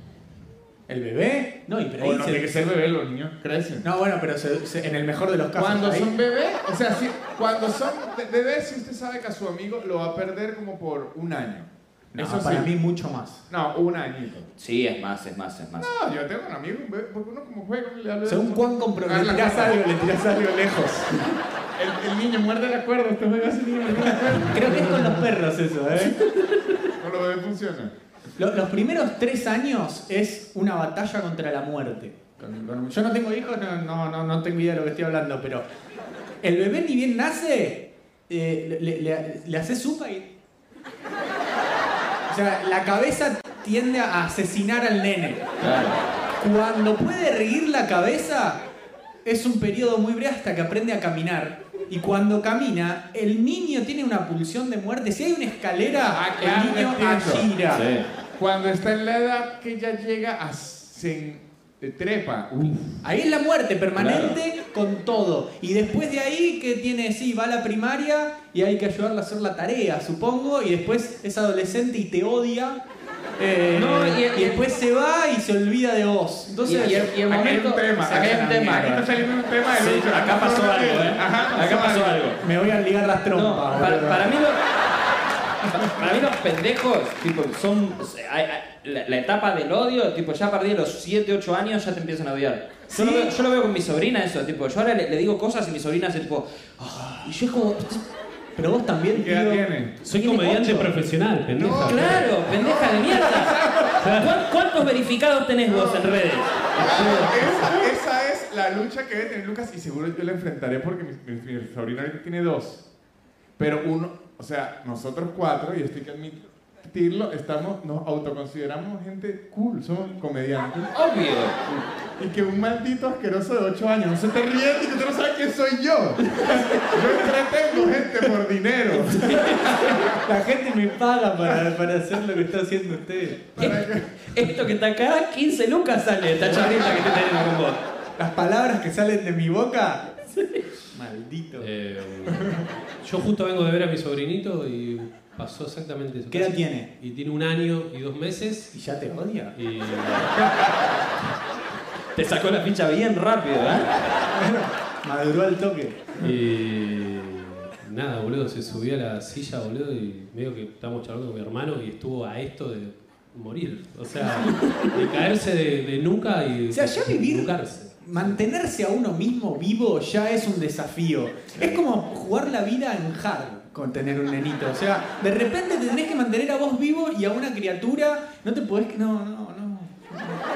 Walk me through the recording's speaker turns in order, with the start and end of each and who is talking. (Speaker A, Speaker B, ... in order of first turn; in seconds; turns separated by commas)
Speaker A: 0.9-2.7, Speaker B: 2.0-3.9, Speaker A: 3.8-6.1, Speaker B: 5.5-12.7, Speaker A: 12.1-13.4, Speaker B: 13.5-14.5, Speaker C: 14.6-15.9, Speaker B: 15.8-19.8, Speaker A: 18.2-21.2, Speaker B: 21.8-25.2, Speaker A: 24.4-26.2, Speaker B: 27.0-27.9, Speaker A: 28.4-35.6, Speaker A: 36.4-40.3, Speaker A: 42.3-45.5, Speaker C: 45.6-46.0, Speaker A: 46.4-48.6, Speaker A: 49.2-57.8, Speaker B: 56.1-57.5, Speaker C: 57.7-58.0, Speaker B: 58.4-63.0, Speaker A: 63.0-72.8, Speaker C: 64.0-64.4, Speaker A: 73.4-79.0, Speaker C: 73.7-74.7, Speaker C: 76.6-79.0, Speaker B: 76.9-82.3, Speaker C: 79.7-82.4, Speaker A: 82.4-84.3, Speaker C: 83.3-84.6, Speaker C: 85.7-98.0, Speaker A: 92.9-93.3, Speaker A: 98.5-99.7, Speaker B: 99.1-100.0, Speaker D: 100.0-102.3, Speaker C: 100.1-100.9, Speaker B: 101.5-103.9, Speaker C: 101.8-107.8, Speaker D: 104.0-104.3, Speaker B: 105.7-106.2, Speaker B: 106.8-112.8, Speaker B: 113.6-120.8, Speaker C: 120.9-121.6, Speaker B: 122.2-130.0, Speaker C: 126.3-126.8, Speaker C: 129.1-130.1, Speaker A: 130.1-133.5, Speaker B: 133.6-134.3, Speaker C: 133.6-137.8, Speaker A: 138.2-140.1, Speaker C: 140.3-140.6, Speaker A: 140.9-141.7, Speaker D: 141.6-148.7, Speaker A: 146.3-146.9, Speaker A: 148.7-149.5, Speaker D: 149.5-150.3, Speaker C: 152.1-154.0, Speaker A: 154.3-156.2, Speaker D: 156.2-168.4, Speaker C: 164.5-164.9, Speaker A: 166.7-180.4